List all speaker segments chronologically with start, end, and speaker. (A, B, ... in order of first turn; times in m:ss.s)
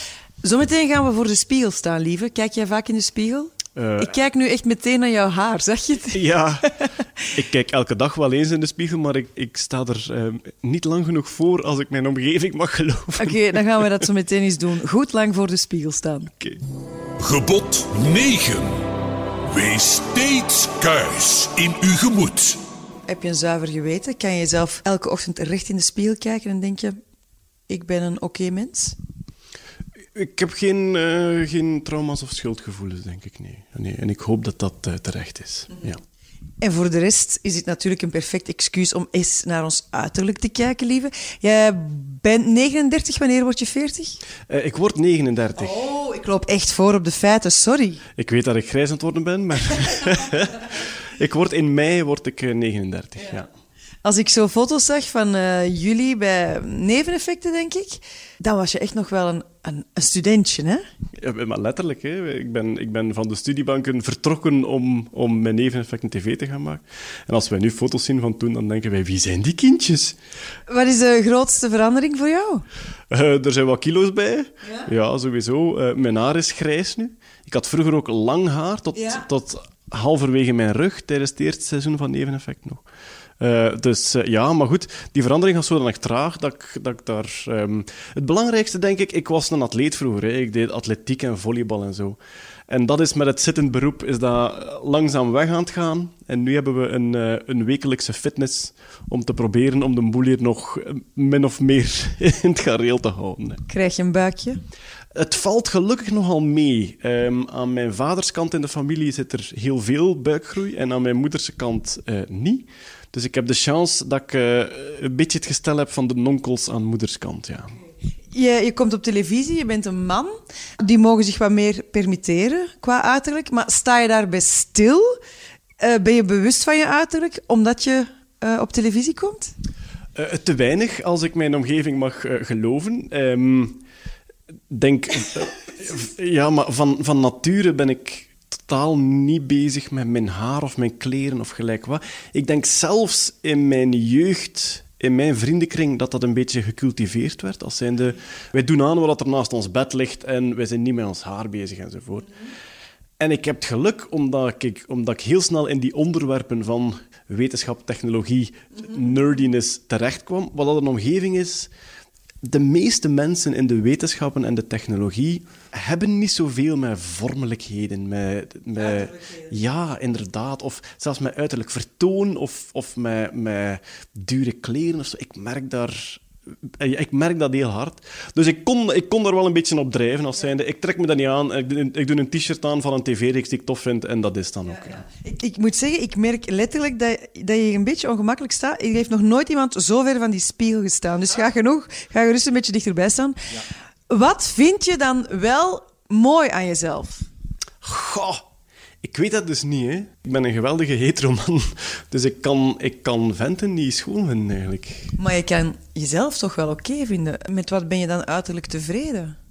0:00.4-0:07.0 A
0:03.8-0:04.2 B
0:06.1-0:06.7 B
0:07.3-0:14.0 B
0:13.2-0:16.3 A
0:17.2-0:18.8 C
0:19.5-0:22.6 C
0:23.1-0:27.0 A
0:27.7-0:29.0 A
0:30.2-0:36.0 B
0:36.6-0:44.2 A
0:44.5-0:45.8 B
0:45.6-0:48.0 A
0:48.2-0:53.5 B
0:54.0-1:00.8 A
1:01.2-1:10.2 B
1:10.7-1:12.6 A
1:13.1-1:22.8 B
1:19.0-1:19.3 A
1:23.4-1:32.2 B
1:32.7-1:43.6 B
1:43.7-1:44.6 A
1:45.1-1:57.8 B
1:58.3-2:05.2 A
2:05.8-2:09.5 A
2:10.2-2:13.8 B
2:14.7-2:32.4 B
2:33.2-2:41.7 B
2:42.4-3:05.0 B
3:04.9-3:17.3 A
3:17.8-3:18.4 B
3:19.0-3:25.2 B
3:25.2-3:29.4 A